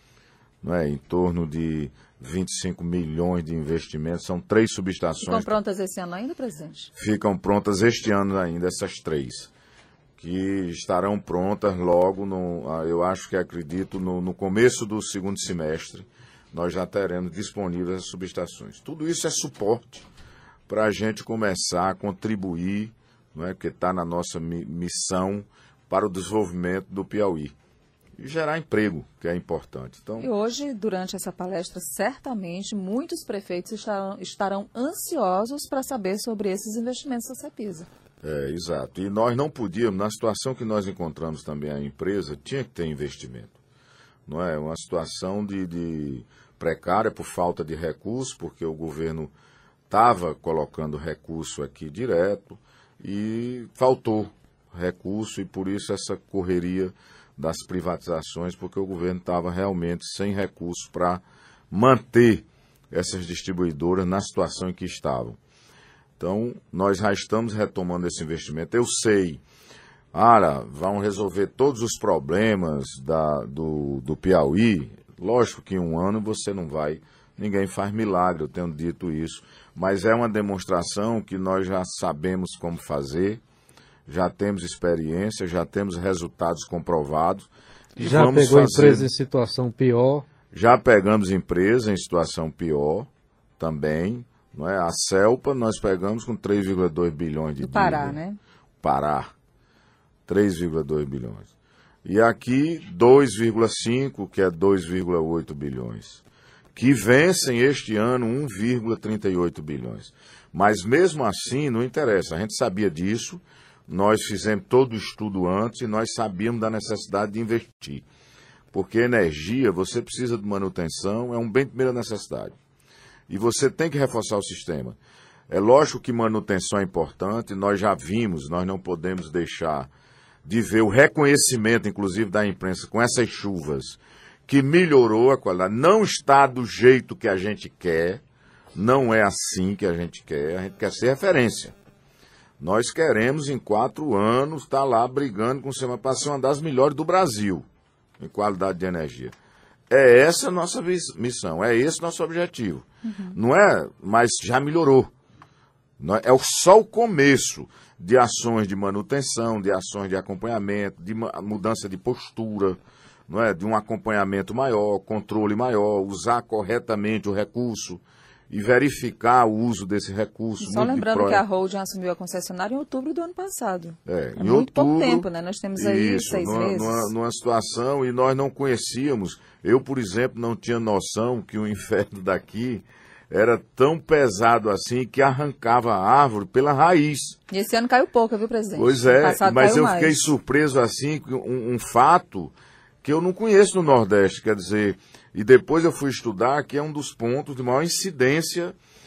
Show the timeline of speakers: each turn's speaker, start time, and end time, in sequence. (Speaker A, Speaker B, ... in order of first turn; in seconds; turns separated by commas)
Speaker A: 0.6-5.5, Speaker B: 5.2-6.9, Speaker A: 6.9-9.5, Speaker A: 10.2-20.1, Speaker A: 20.7-27.5, Speaker A: 28.2-30.3, Speaker B: 30.2-37.9, Speaker A: 38.2-43.5, Speaker A: 44.3-49.3, Speaker A: 49.9-65.4, Speaker A: 66.2-69.4, Speaker A: 70.1-83.4, Speaker A: 84.0-89.1, Speaker C: 88.0-90.2, Speaker A: 90.5-93.1, Speaker A: 93.6-98.2, Speaker B: 97.6-98.4, Speaker A: 98.8-99.3, Speaker A: 100.3-101.5, Speaker A: 102.0-106.2, Speaker A: 106.7-118.0, Speaker A: 118.7-122.5, Speaker A: 123.3-125.0, Speaker A: 125.5-129.9, Speaker A: 130.4-138.2, Speaker A: 138.7-141.7, Speaker A: 142.6-147.6, Speaker A: 148.2-149.3, Speaker A: 149.9-155.1, Speaker B: 153.1-153.3, Speaker A: 156.0-162.8, Speaker A: 163.3-171.4, Speaker B: 170.6-177.1, Speaker A: 174.1-187.4, Speaker B: 187.5-190.3, Speaker A: 188.8-198.7